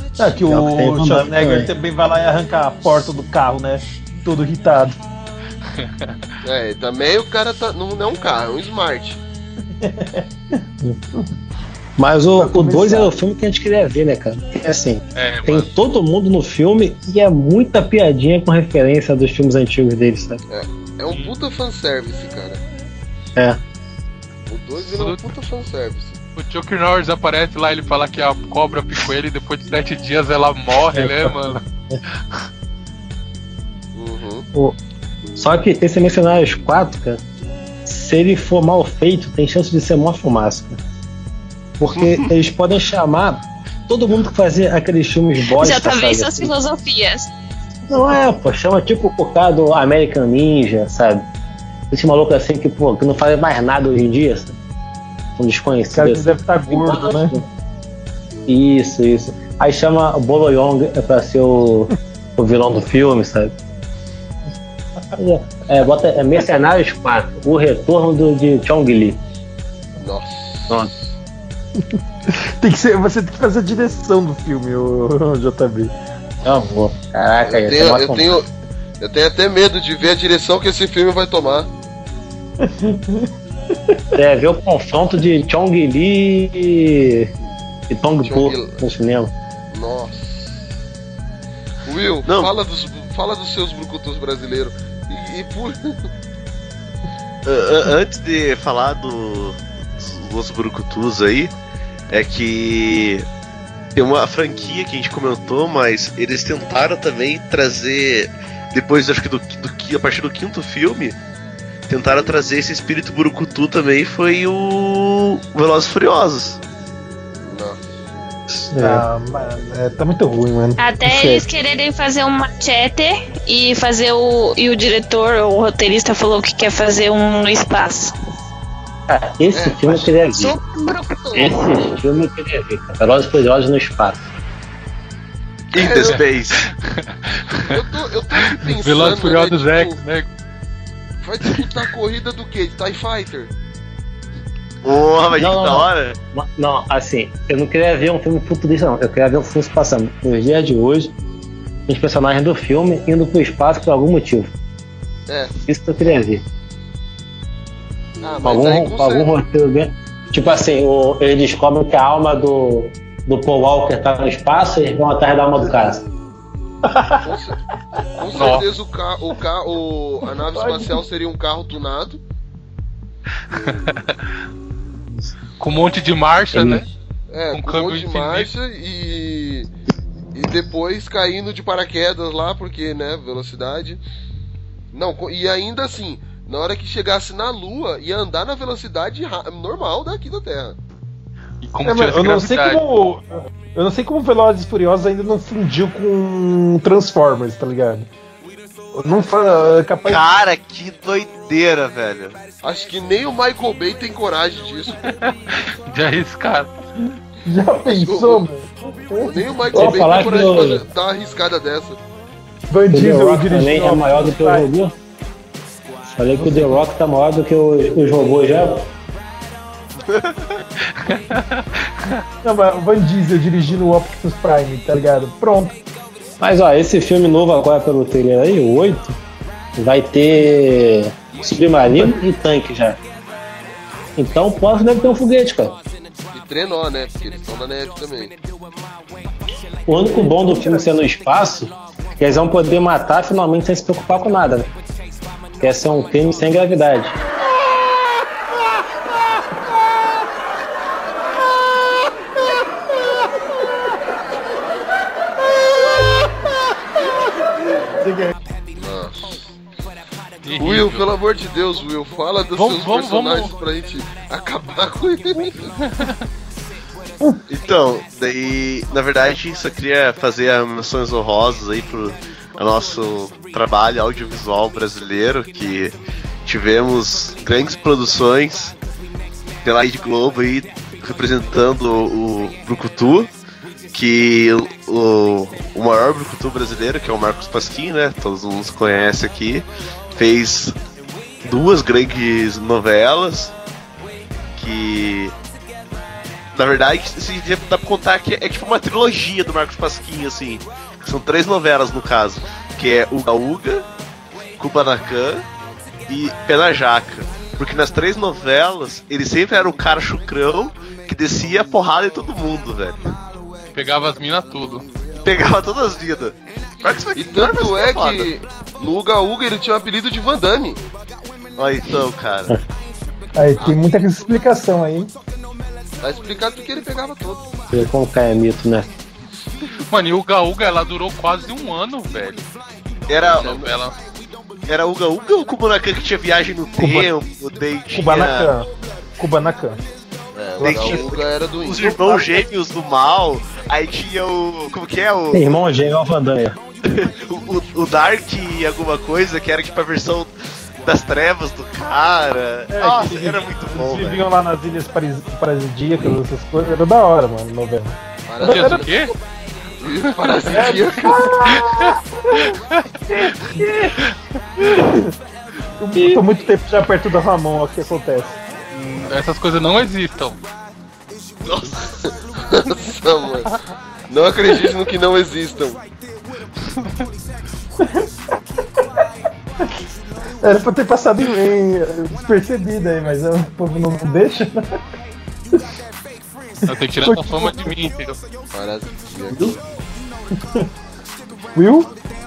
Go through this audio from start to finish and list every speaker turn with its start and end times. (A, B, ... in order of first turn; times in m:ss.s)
0:00.2-0:05.0 A
0:00.4-0:01.7 B
0:05.8-0:06.2 C
0:06.4-0:09.2 D
0:09.8-0:10.2 A
0:12.0-0:20.4 B
0:12.4-0:13.1 A
0:15.1-0:15.7 C
0:20.5-0:22.6 D
0:24.5-0:26.2 D
0:24.8-0:25.2 C
0:26.4-0:31.6 C
0:30.9-0:31.3 B
0:32.1-0:32.4 C
0:33.9-0:34.4 D
0:35.4-0:37.2 B
0:37.9-0:40.8 B
0:41.8-0:46.5 B
0:41.9-0:42.3 E
0:45.5-0:47.3 F
0:47.9-0:51.3 B
0:51.9-0:54.5 B
0:55.4-0:57.4 B
0:55.9-0:57.4 A
0:58.5-1:03.6 B
1:05.2-1:09.2 B
1:10.0-1:11.1 D
1:12.6-1:15.9 A
1:16.4-1:18.3 B
1:17.4-1:18.4 D
1:19.0-1:21.7 D
1:22.6-1:23.3 A
1:24.2-1:27.3 B
1:27.9-1:29.3 B
1:28.2-1:28.8 D
1:29.7-1:30.6 D
1:31.8-1:36.0 D
1:32.2-1:32.5 E
1:37.4-1:41.5 E
1:42.1-1:43.2 E
1:43.9-1:51.2 E
1:51.9-1:56.6 E
1:57.4-1:57.8 D
1:58.5-1:59.0 B
1:58.8-2:01.4 A
2:00.8-2:08.1 F
2:09.1-2:10.5 B
2:09.5-2:10.1 D
2:10.4-2:11.5 F
2:11.3-2:14.2 B
2:15.7-2:16.6 E
2:15.7-2:16.2 D
2:16.8-2:17.6 C
2:17.7-2:20.0 D
2:18.5-2:20.3 C
2:21.2-2:23.5 D
2:24.8-2:26.2 E
2:25.4-2:31.1 B
2:31.9-2:34.5 B
2:35.7-2:36.4 B
2:38.2-2:39.3 D
2:38.4-2:46.0 B
2:47.2-2:47.6 D
2:48.2-2:52.2 D
2:48.3-2:48.6 C
2:50.5-2:51.0 A
2:53.5-2:54.2 C
2:55.6-2:56.8 C
2:56.5-2:56.8 B
2:57.3-2:59.7 D
2:57.5-2:58.5 C
3:00.3-3:04.0 D
3:04.9-3:10.8 D
3:11.6-3:12.8 C
3:11.8-3:18.1 A
3:18.9-3:20.2 A
3:20.0-3:22.4 E
3:22.6-3:25.1 D
3:25.0-3:26.7 C
3:27.4-3:30.5 A
3:27.8-3:28.4 D
3:29.2-3:32.0 D
3:29.7-3:30.8 B
3:32.7-3:34.7 A
3:32.9-3:34.9 B
3:36.1-3:38.9 B
3:36.4-3:36.8 A
3:41.0-3:42.2 C
3:42.4-3:45.8 A
3:46.4-3:49.2 B
3:49.8-3:53.0 B
3:54.2-3:55.8 B
3:56.3-3:58.3 D
3:59.9-4:04.7 B
4:00.4-4:00.8 A
4:05.6-4:07.2 B
4:18.0-4:18.3 A
4:18.8-4:19.5 D
4:20.4-4:21.0 C
4:20.6-4:25.7 D
4:22.6-4:23.5 C
4:25.8-4:26.2 C
4:27.5-4:38.7 E
4:39.6-4:43.3 E
4:43.9-4:50.8 E
4:51.4-4:53.5 E
4:54.5-4:55.3 E
4:56.5-5:03.8 E
5:04.6-5:05.4 E
5:06.1-5:13.1 E
5:13.7-5:14.8 C
5:15.2-5:18.3 E
5:17.1-5:20.8 D
5:21.6-5:22.5 E
5:23.4-5:25.1 A
5:26.0-5:27.5 D
5:27.7-5:28.9 B
5:29.9-5:32.4 C
5:33.1-5:33.6 E
5:33.3-5:33.7 D
5:33.3-5:34.0 C
5:34.7-5:38.5 E
5:36.8-5:37.1 A
5:37.9-5:39.8 A
5:40.3-5:42.4 D
5:40.6-5:41.0 A
5:40.6-5:45.4 E
5:45.3-5:46.6 B
5:46.8-5:50.3 E
5:50.8-5:54.2 E
5:52.7-5:58.9 A
5:58.3-5:59.0 D
5:58.4-5:59.1 C
5:59.8-6:01.5 D
6:00.3-6:00.7 C
6:00.5-6:02.0 A
6:01.5-6:02.6 C
6:03.1-6:03.9 A
6:04.6-6:05.1 A
6:05.8-6:08.4 A
6:05.9-6:06.2 B
6:08.7-6:10.4 C
6:11.4-6:11.7 E
6:12.0-6:13.5 D
6:14.1-6:15.8 D
6:20.4-6:24.8 A
6:26.7-6:28.2 C
6:26.9-6:27.7 A
6:28.5-6:29.4 D
6:31.5-6:31.9 A